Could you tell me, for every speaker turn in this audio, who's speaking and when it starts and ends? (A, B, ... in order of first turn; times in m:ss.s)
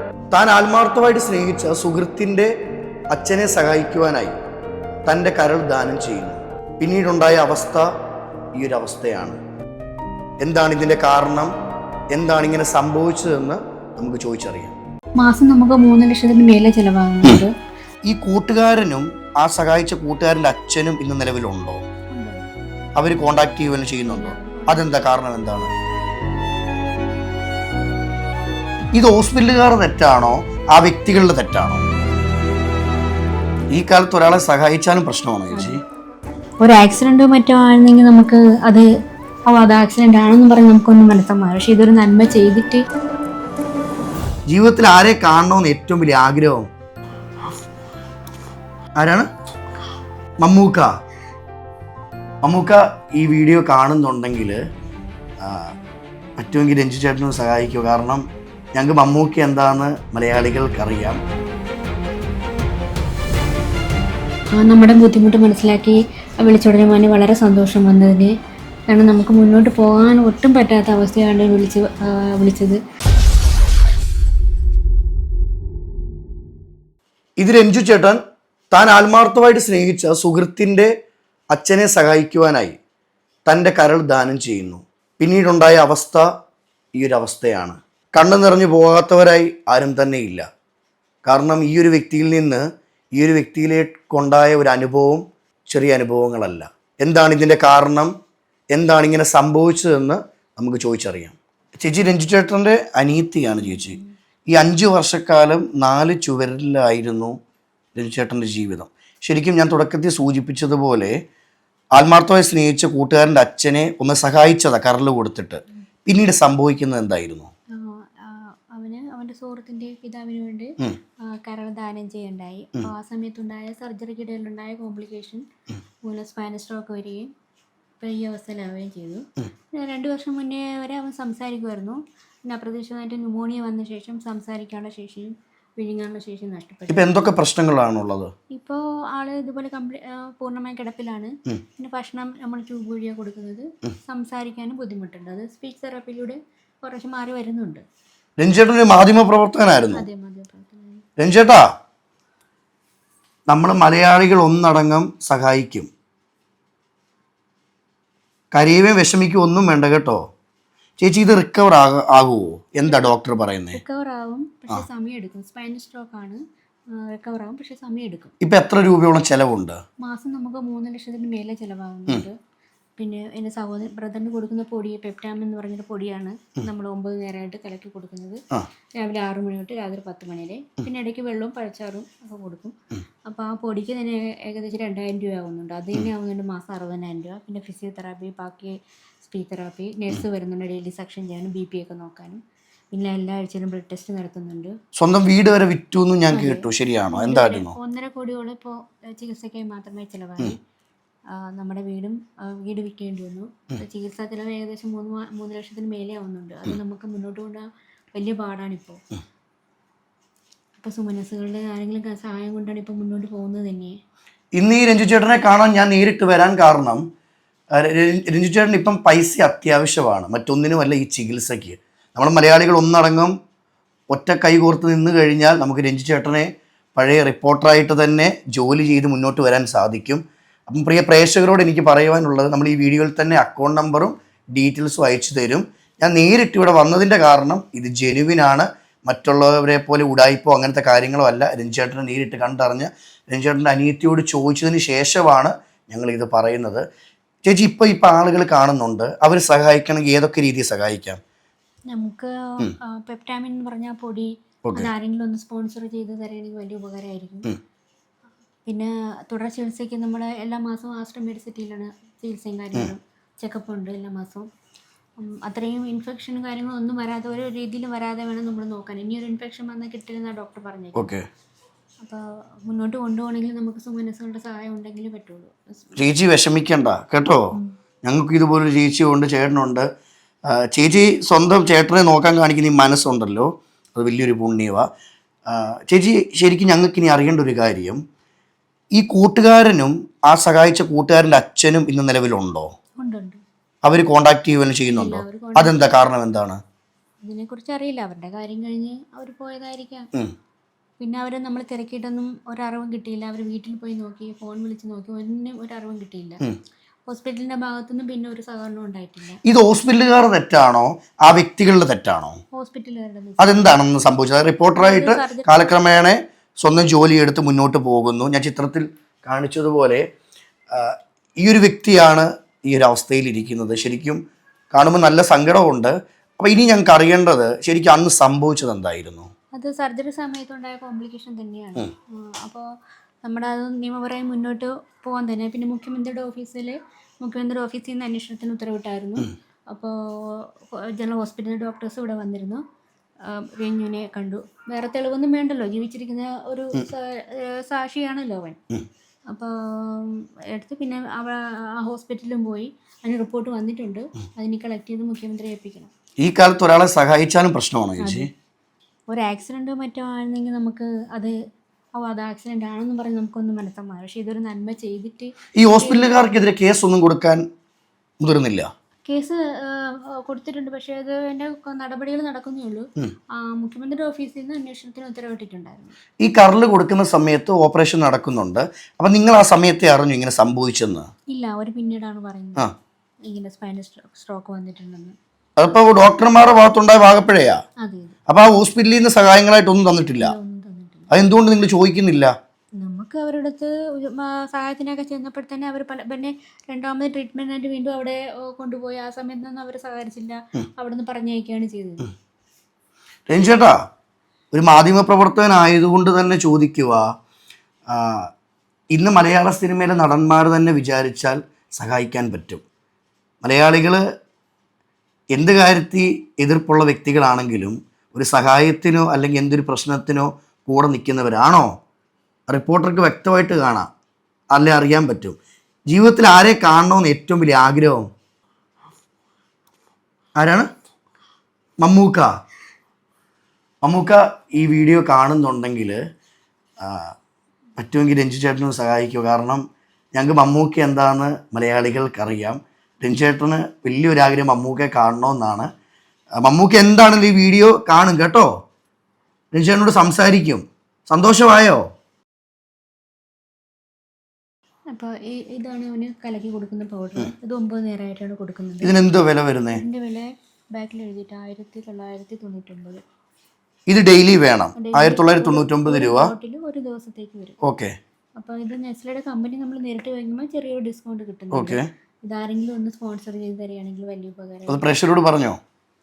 0:00.3-0:02.5 A
0:03.1-0:04.4 A
0:05.1-0:07.9 A
0:08.6-0:09.4 A
0:10.4-0:11.5 A
0:12.1-0:14.8 A
0:15.2-0:17.5 B
0:18.1-0:21.8 A
0:22.1-0:22.5 B
0:23.0-0:25.7 A
0:24.0-0:24.9 B
0:28.9-0:31.9 A
0:33.7-0:35.8 A
0:35.5-0:35.8 B
0:36.6-0:38.9 B
0:39.5-0:42.8 B
0:44.5-0:46.7 A
0:49.0-0:49.3 A
0:50.4-0:50.9 A
0:52.4-0:54.6 A
0:55.4-0:55.8 A
0:56.4-1:01.2 A
1:04.6-1:08.3 B
1:08.9-1:12.8 B
1:17.4-1:18.2 A
1:18.7-1:20.9 A
1:21.5-1:22.8 A
1:23.5-1:26.3 A
1:27.0-1:30.4 A
1:31.2-1:38.1 A
1:38.7-1:44.0 A
1:43.6-1:44.1 B
1:44.5-1:47.4 A
1:48.0-1:51.2 A
1:52.0-1:57.5 A
1:57.8-2:00.7 B
2:01.3-2:05.4 B
2:06.0-2:07.3 B
2:08.0-2:17.3 B
2:16.9-2:18.3 A
2:18.5-2:27.8 B
2:28.4-2:30.0 A
2:29.9-2:31.0 B
2:31.2-2:31.7 A
2:33.5-2:35.9 A
2:38.5-2:40.2 A
2:41.0-2:43.8 A
2:43.7-2:46.4 B
2:47.0-2:48.3 B
2:48.4-2:49.8 A
2:50.0-2:52.3 B
2:53.0-2:58.4 B
2:59.0-3:02.8 B
3:03.3-3:12.4 B
3:12.9-3:14.7 B
3:15.0-3:17.8 A
3:16.3-3:20.6 B
3:21.3-3:29.0 B
3:30.8-3:34.0 B
3:34.6-3:37.0 A
3:37.7-3:43.3 A
3:44.1-4:06.8 A
4:07.4-4:11.2 A
4:11.9-4:17.5 B
4:18.7-4:24.5 B
4:25.2-4:31.1 B
4:31.0-4:31.2 A
4:32.0-4:35.9 B
4:36.0-4:37.4 A
4:38.0-4:39.9 A
4:40.5-4:44.9 A
4:45.5-4:48.0 A
4:49.0-4:52.7 A
4:53.0-4:53.4 B
4:53.8-4:56.6 A
4:54.9-4:55.9 B
4:57.2-5:00.1 B
5:01.0-5:06.4 B
5:07.1-5:09.4 B
5:09.4-5:12.4 A
5:12.5-5:13.8 B
5:13.4-5:20.0 A
5:14.8-5:15.5 B
5:20.7-5:24.2 A
5:24.7-5:29.3 A
5:29.5-5:32.6 B
5:33.2-5:42.6 B
5:43.3-5:48.6 B
5:49.3-5:55.9 B
5:56.2-5:58.3 A
5:58.0-5:58.3 B
5:59.1-6:01.3 B
6:02.0-6:06.3 B
6:05.6-6:07.4 A
6:08.2-6:08.7 A
6:09.1-6:16.0 B
6:16.2-6:21.1 A
6:21.3-6:22.7 B
6:23.3-6:25.1 B
6:25.6-6:27.6 A
6:27.8-6:28.2 B
6:28.3-6:30.3 A
6:30.2-6:31.1 B
6:31.1-6:32.3 A
6:32.8-6:42.1 B
6:43.3-6:43.8 A
6:44.5-6:47.1 A
6:47.9-6:48.3 A
6:48.9-6:52.6 A
6:53.4-6:54.0 A
6:55.3-7:01.8 A
7:02.5-7:03.9 A
7:04.5-7:05.4 A
7:05.9-7:08.1 A
7:10.4-7:10.7 A
7:11.8-7:12.3 A
7:13.8-7:16.0 A
7:16.8-7:17.1 A
7:17.8-7:25.7 A
7:26.4-7:28.5 A
7:29.5-7:31.8 A
7:34.9-7:39.0 B
7:38.8-7:39.8 A
7:39.7-7:43.0 B
7:43.9-7:46.3 A
7:44.8-7:47.6 B
7:47.6-7:47.9 A
7:48.4-7:54.9 B
7:51.5-7:51.9 A
7:54.7-7:55.6 A